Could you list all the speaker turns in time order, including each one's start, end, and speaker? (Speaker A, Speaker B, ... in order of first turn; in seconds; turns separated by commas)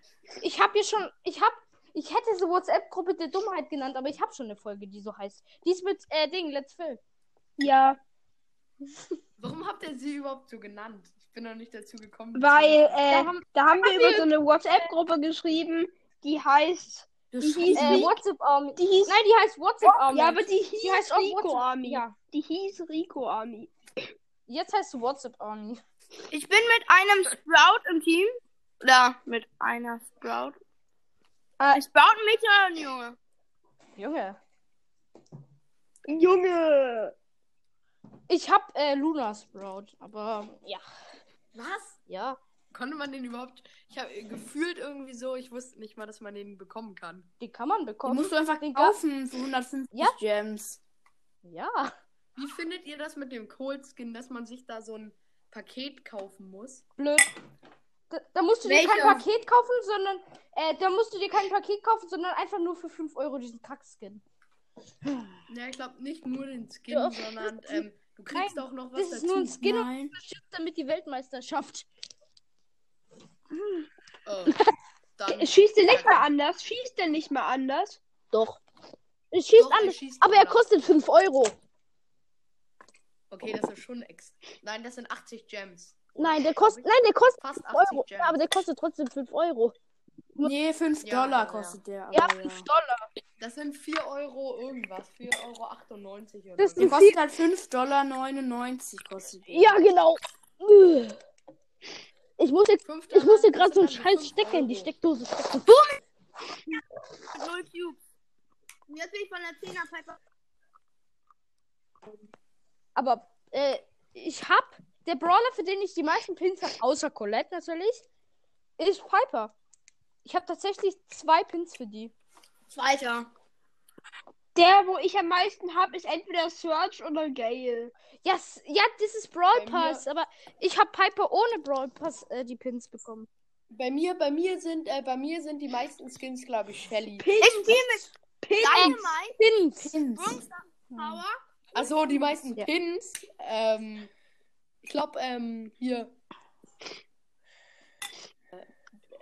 Speaker A: 0.4-7.0, Speaker B: 7.6-8.0, Speaker C: 9.4-13.2, Speaker B: 12.3-18.2, Speaker A: 13.1-14.3, Speaker D: 17.3-18.1, Speaker A: 17.7-22.1, Speaker B: 18.8-19.2, Speaker B: 19.9-23.7, Speaker A: 24.5-25.8, Speaker E: 26.3-30.6, Speaker E: 31.6-33.2, Speaker A: 34.0-34.4, Speaker B: 36.1-37.1, Speaker A: 38.3-40.8, Speaker C: 41.5-42.0, Speaker A: 42.1-42.4, Speaker C: 42.7-47.3, Speaker A: 47.4-49.0, Speaker D: 48.0-50.8, Speaker A: 51.4-52.0, Speaker C: 52.4-56.9, Speaker A: 57.0-57.3, Speaker A: 58.1-64.2, Speaker E: 58.6-59.2, Speaker C: 65.5-69.6, Speaker A: 66.9-71.9, Speaker D: 69.5-70.2, Speaker A: 73.5-73.8, Speaker C: 74.3-74.6, Speaker C: 75.2-76.3, Speaker B: 75.3-78.0, Speaker A: 78.3-78.6, Speaker A: 79.3-81.5, Speaker C: 79.6-80.7, Speaker C: 83.3-88.4, Speaker A: 86.2-89.8, Speaker D: 90.4-92.7, Speaker C: 91.0-91.8, Speaker A: 92.1-93.1, Speaker C: 93.4-96.9, Speaker A: 96.6-97.2, Speaker D: 96.8-99.8, Speaker A: 99.5-101.2, Speaker A: 102.4-105.8, Speaker C: 102.8-104.9, Speaker E: 105.7-106.0, Speaker E: 107.3-108.0, Speaker E: 108.9-110.2, Speaker A: 113.0-118.0, Speaker A: 118.8-119.5, Speaker A: 120.2-122.1, Speaker E: 122.7-123.3, Speaker B: 124.5-127.9, Speaker A: 128.2-133.3, Speaker C: 129.5-130.1, Speaker C: 133.7-137.3, Speaker B: 137.2-139.1, Speaker E: 137.4-138.1, Speaker E: 138.6-139.4, Speaker A: 138.7-140.0, Speaker D: 139.8-140.4, Speaker E: 140.2-141.4, Speaker A: 140.9-141.2, Speaker C: 141.7-144.1, Speaker C: 144.8-146.1